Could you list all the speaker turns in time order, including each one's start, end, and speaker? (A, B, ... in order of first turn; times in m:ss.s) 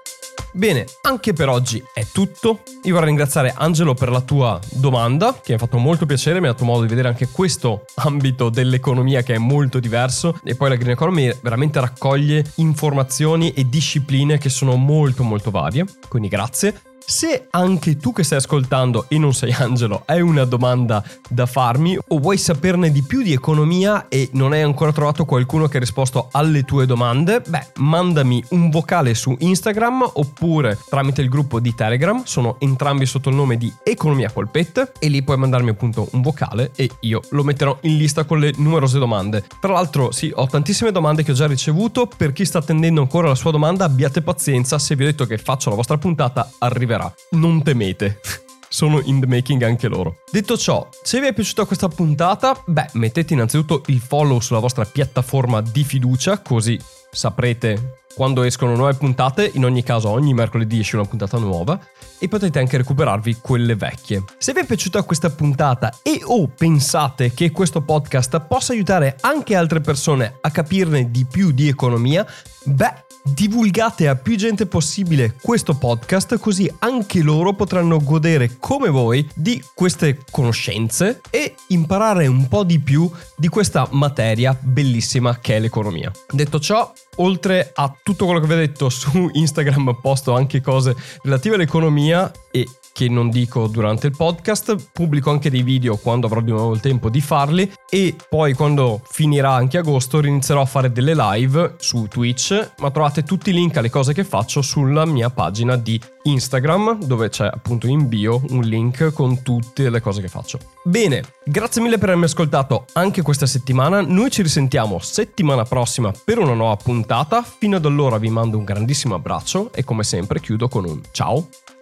0:00.5-2:01.5 A